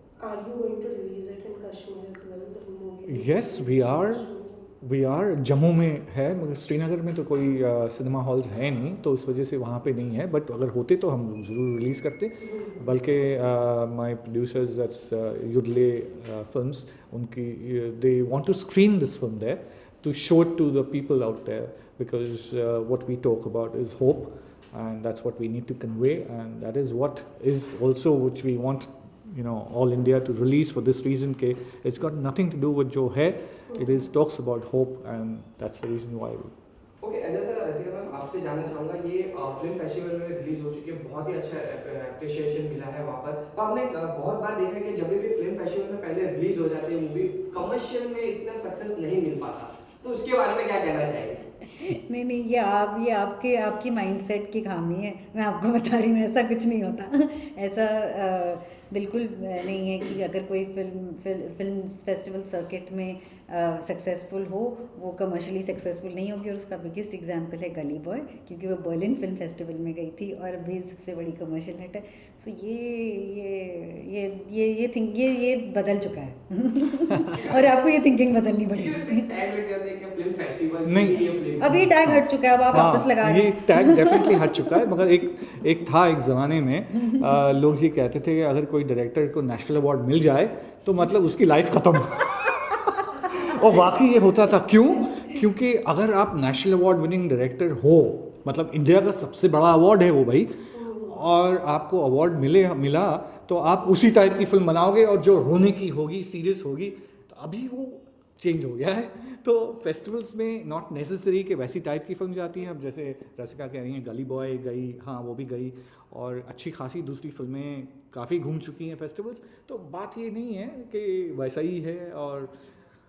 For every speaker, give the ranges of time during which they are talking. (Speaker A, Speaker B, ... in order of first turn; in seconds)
Speaker A: 0.2-4.6, 100.8-101.2
Speaker B: 3.1-4.3, 4.8-36.5, 80.8-122.7
Speaker C: 37.0-51.5, 78.7-81.8
Speaker D: 51.7-79.3, 81.6-84.8